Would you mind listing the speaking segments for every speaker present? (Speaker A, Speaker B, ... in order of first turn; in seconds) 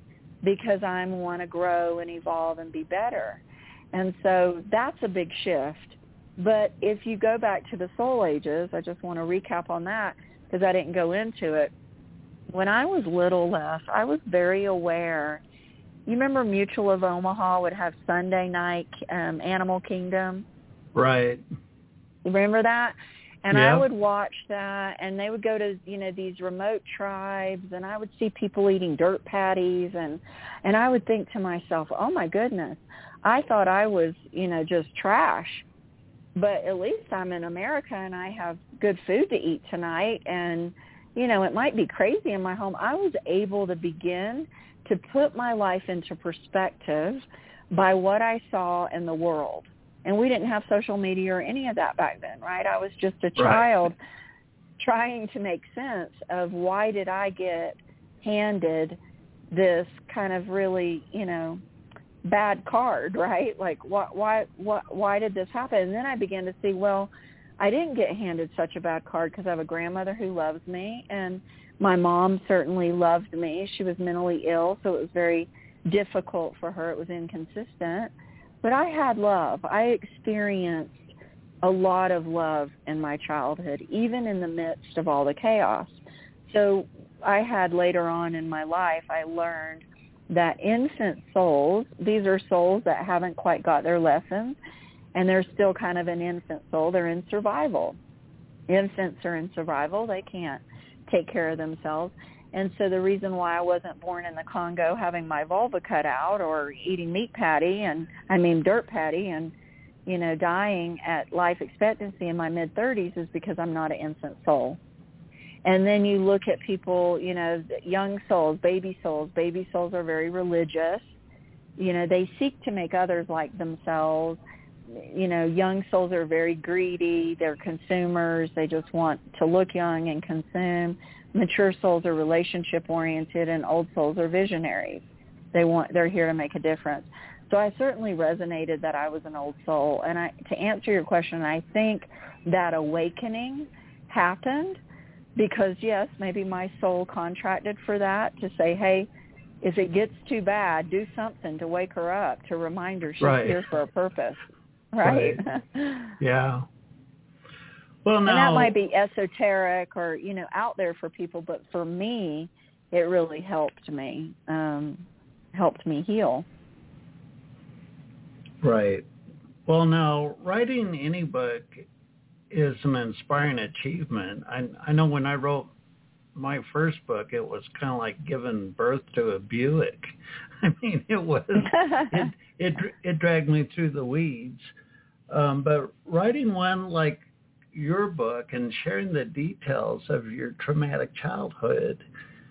Speaker A: 0.4-11.7, 12.5-15.4, 16.1-20.4, 22.2-35.6, 36.4-54.0, 54.8-59.0, 59.5-61.6, 62.3-78.1, 78.6-81.0, 81.6-94.6, 95.1-98.0, 98.7-109.5, 110.1-114.8, 115.6-121.1, 121.8-135.0, 135.5-144.8, 145.4-149.1, 149.6-154.4, 154.9-156.1, 158.3-166.5
Speaker B: 20.9-21.4, 23.5-23.9, 53.4-53.6, 153.2-153.6, 155.0-155.4, 156.2-156.6, 158.1-158.8, 168.6-169.1, 169.7-171.9, 172.5-175.7, 176.3-180.1, 180.6-184.7, 185.3-192.0